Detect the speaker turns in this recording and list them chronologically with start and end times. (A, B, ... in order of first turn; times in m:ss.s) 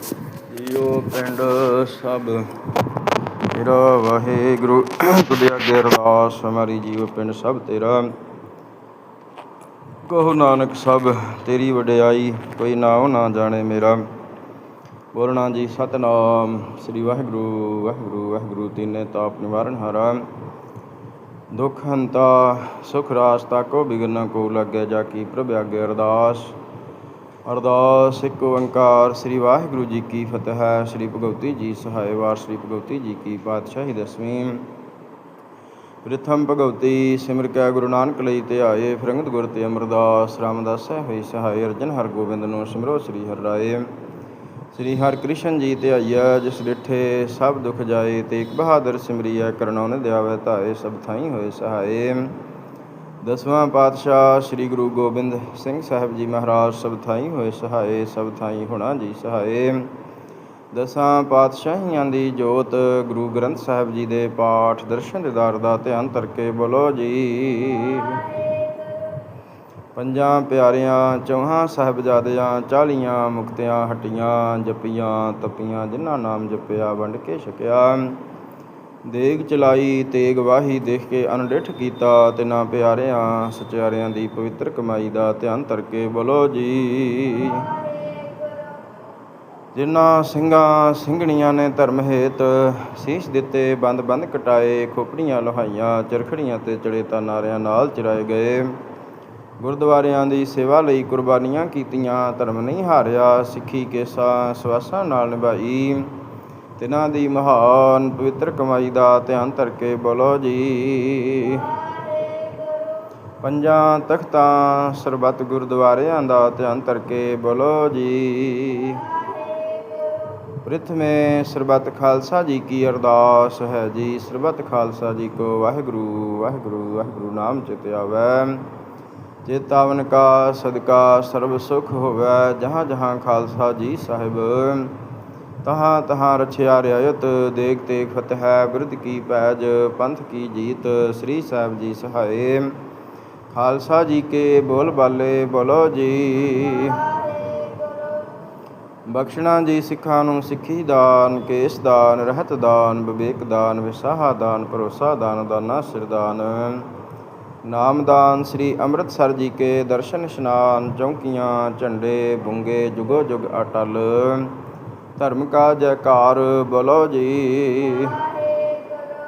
0:00.5-0:02.5 A
0:03.5-0:08.1 A
0:10.0-0:14.0 A
0:15.1-0:20.2 A
0:21.5-0:26.5 A
0:27.4-0:34.7 A
0:36.0-0:43.9 A
0:44.7-0:52.4 A
0:53.2-0:59.9 A
1:00.7-1:08.4 A
1:09.9-1:18.2 A
1:19.0-1:27.8 A
1:29.7-1:38.8 A
1:39.6-1:46.1 A
1:46.8-1:51.8 A
1:53.4-1:59.2 A
2:00.6-2:08.7 A
2:09.4-2:15.0 A
2:15.6-2:22.8 A
2:23.5-2:27.2 A
2:29.1-2:36.9 A
2:37.6-2:44.6 A
2:45.2-2:48.3 A